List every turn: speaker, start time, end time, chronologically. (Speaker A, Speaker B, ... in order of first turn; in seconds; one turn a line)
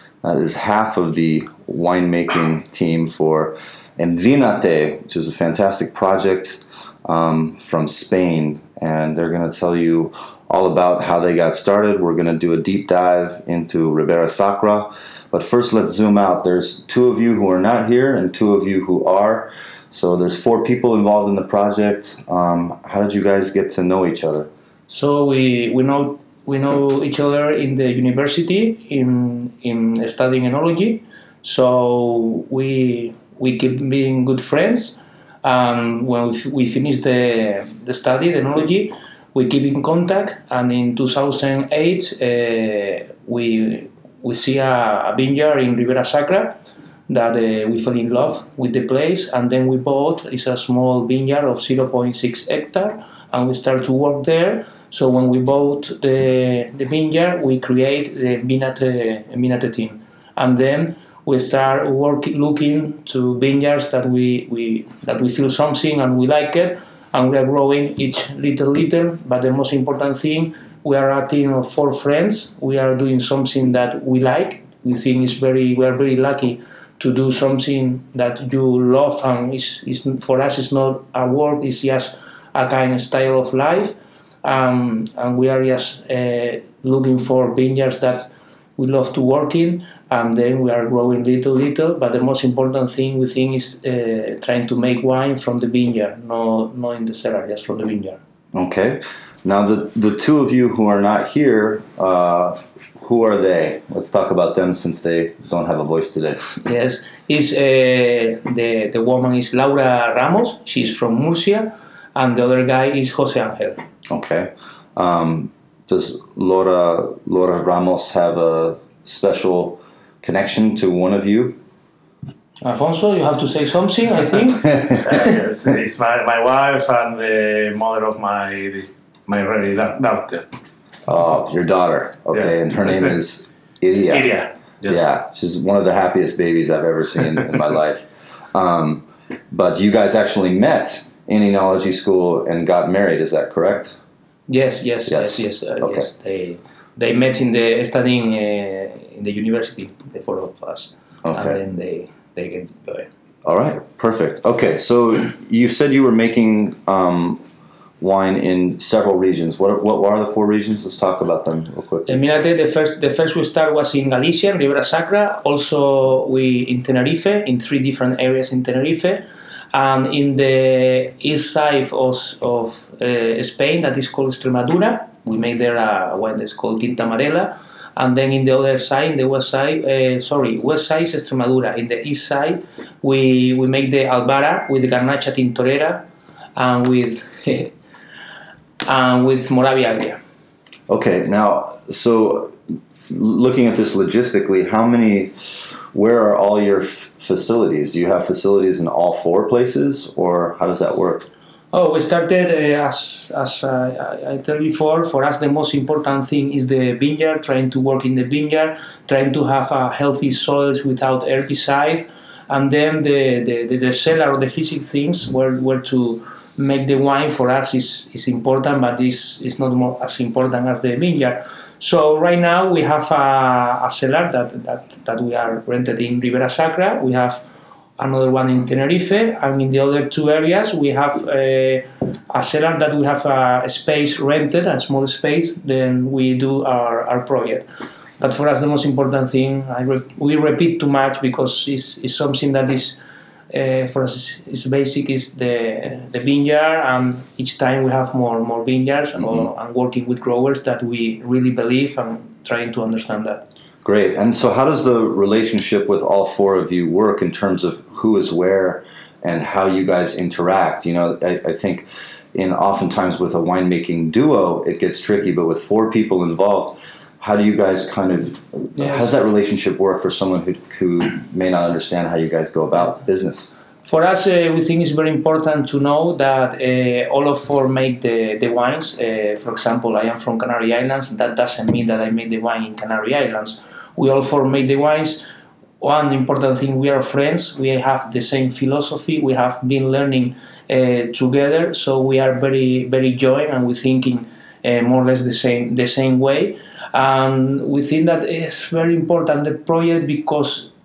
Speaker A: 0.2-24.5
Speaker B: 24.9-98.2
Speaker A: 98.5-106.4
Speaker B: 106.6-113.8
Speaker A: 114.1-121.6
Speaker B: 122.6-125.3
Speaker C: 124.9-130.5
Speaker A: 131.1-134.3
Speaker C: 132.3-133.1
Speaker C: 134.1-135.1
Speaker A: 134.8-144.0
Speaker B: 144.5-153.1
Speaker A: 145.1-146.1
Speaker A: 151.2-151.6
Speaker A: 153.4-157.4
Speaker A: 158.0-162.2
Speaker B: 162.1-186.0
Speaker B: 186.6-187.7
Speaker B: 188.8-190.2
Speaker A: 190.9-192.6
Speaker A: 193.1-195.3
Speaker A: 195.9-201.3
Speaker B: 201.7-227.4
Speaker B: 228.0-237.6
Speaker B: 238.2-243.0
Speaker B: 243.5-253.4
Speaker A: 249.2-249.5
Speaker A: 253.8-273.5
Speaker B: 268.8-269.1
Speaker B: 273.8-285.2
Speaker B: 285.8-300.7